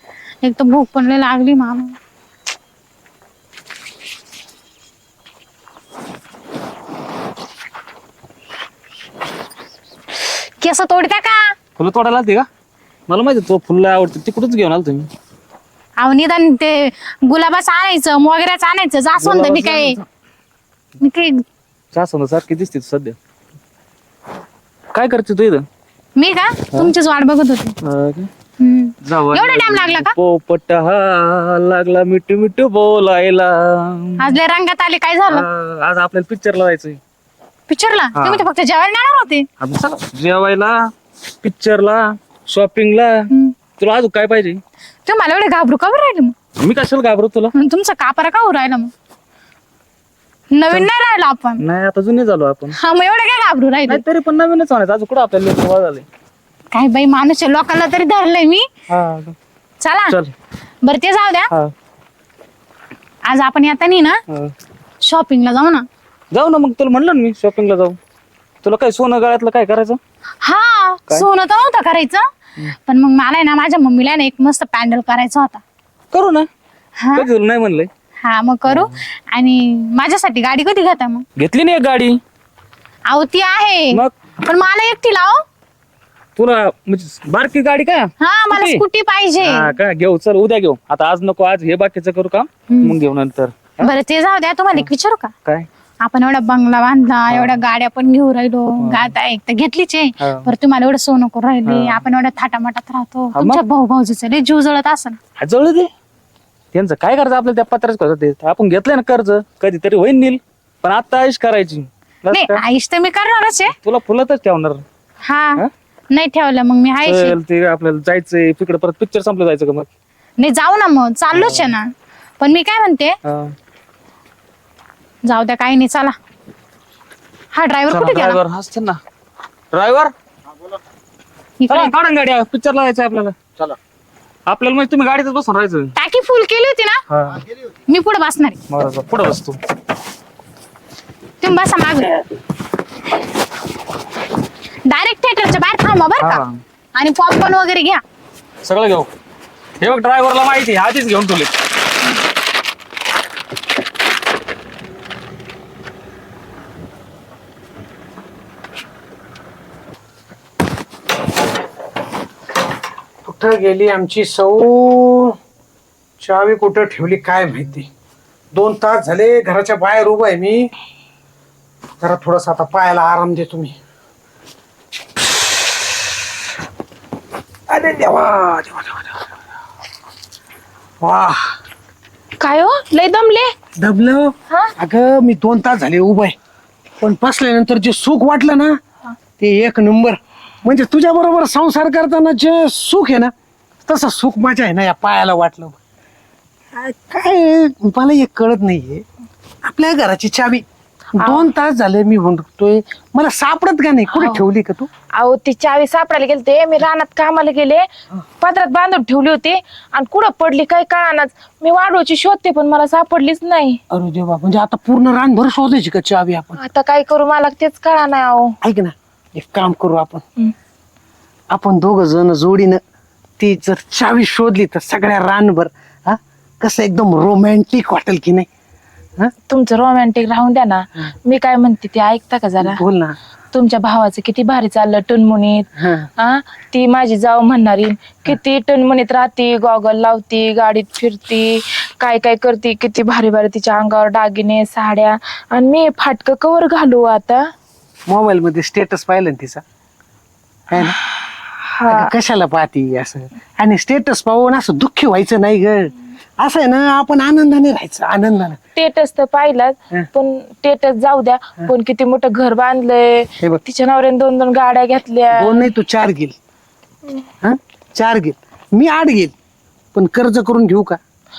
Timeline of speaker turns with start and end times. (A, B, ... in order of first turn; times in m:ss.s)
0:00.4-0:02.0 A
0:10.6-0:11.5 A
0:11.8-0:12.5 B
0:13.1-0:15.1 B
0:16.0-0:20.0 A
0:19.2-0:20.0 B
0:21.0-0:21.4 A
0:21.9-0:23.2 B
0:24.9-0:25.7 B
0:26.2-0:27.8 A
0:27.8-0:28.3 B
0:28.6-0:30.1 A
0:29.0-0:34.4 B
0:34.2-0:35.5 A
0:35.3-0:37.0 B
0:37.7-0:39.5 A
0:38.1-0:38.5 B
0:39.6-0:40.9 B
0:41.4-0:44.6 B
0:45.1-0:46.3 A
0:46.6-0:47.5 B
0:47.5-0:48.9 A
0:50.5-0:51.6 A
0:51.6-0:52.8 B
0:52.8-0:54.0 A
0:53.9-0:56.0 B
0:56.7-0:58.7 A
0:58.9-0:59.4 C
0:59.8-1:00.2 A
1:00.8-1:01.5 A
1:03.3-1:04.2 A
1:05.0-1:05.9 A
1:06.3-1:08.0 B
1:08.6-1:10.0 B
1:10.4-1:12.3 A
1:12.9-1:15.6 A
1:16.1-1:16.5 B
1:17.0-1:17.3 A
1:17.1-1:17.9 B
1:18.2-1:21.2 A
1:18.7-1:19.0 B
1:21.4-1:22.2 B
1:23.1-1:25.4 A
1:26.4-1:28.8 B
1:28.2-1:29.8 A
1:29.4-1:33.9 B
1:32.7-1:33.0 A
1:33.8-1:35.3 A
1:36.0-1:45.2 A
1:37.3-1:37.6 B
1:38.8-1:39.1 B
1:40.2-1:40.5 B
1:41.6-1:42.1 B
1:43.3-1:43.6 B
1:45.4-1:45.9 B
1:46.7-1:52.6 B
1:52.3-1:53.8 A
1:53.8-1:54.8 B
1:55.2-1:57.4 A
1:57.0-1:59.9 B
2:00.4-2:03.2 A
2:01.3-2:01.7 B
2:03.3-2:03.5 B
2:05.2-2:06.2 A
2:07.5-2:08.4 A
2:07.9-2:09.0 B
2:09.7-2:10.1 B
2:11.6-2:11.9 A
2:11.7-2:13.8 B
2:14.5-2:15.9 B
2:16.0-2:17.0 A
2:17.1-2:17.4 B
2:17.9-2:18.6 A
2:18.7-2:19.6 B
2:21.4-2:22.2 A
2:24.9-2:26.4 A
2:26.2-2:26.6 B
2:27.0-2:28.0 A
2:28.6-2:29.1 B
2:29.8-2:31.5 B
2:43.2-2:45.4 C
2:46.2-2:47.9 C
2:48.5-2:50.7 C
2:52.0-2:53.8 C
2:57.7-2:59.2 C
3:01.0-3:01.6 C
3:02.4-3:03.5 D
3:03.8-3:06.4 C
3:07.0-3:08.8 C
3:09.4-3:13.3 C
3:13.8-3:15.8 C
3:16.7-3:19.0 C
3:19.6-3:20.6 C
3:21.2-3:21.5 D
3:21.2-3:24.9 C
3:24.1-3:24.4 D
3:25.1-3:27.9 D
3:28.4-3:33.8 D
3:33.9-3:36.6 C
3:36.6-3:38.6 D
3:38.6-3:40.2 C
3:41.5-3:42.8 C
3:43.4-3:48.5 C
3:49.5-3:52.8 D
3:52.6-3:53.2 C
3:53.5-4:07.4 D
3:55.8-3:56.1 C
4:08.1-4:09.6 C
4:10.7-4:11.0 C
4:11.1-4:12.1 D
4:11.9-4:18.6 C
4:18.8-4:25.7 D
4:25.4-4:26.4 C
4:27.4-4:29.3 C
4:29.9-4:31.0 C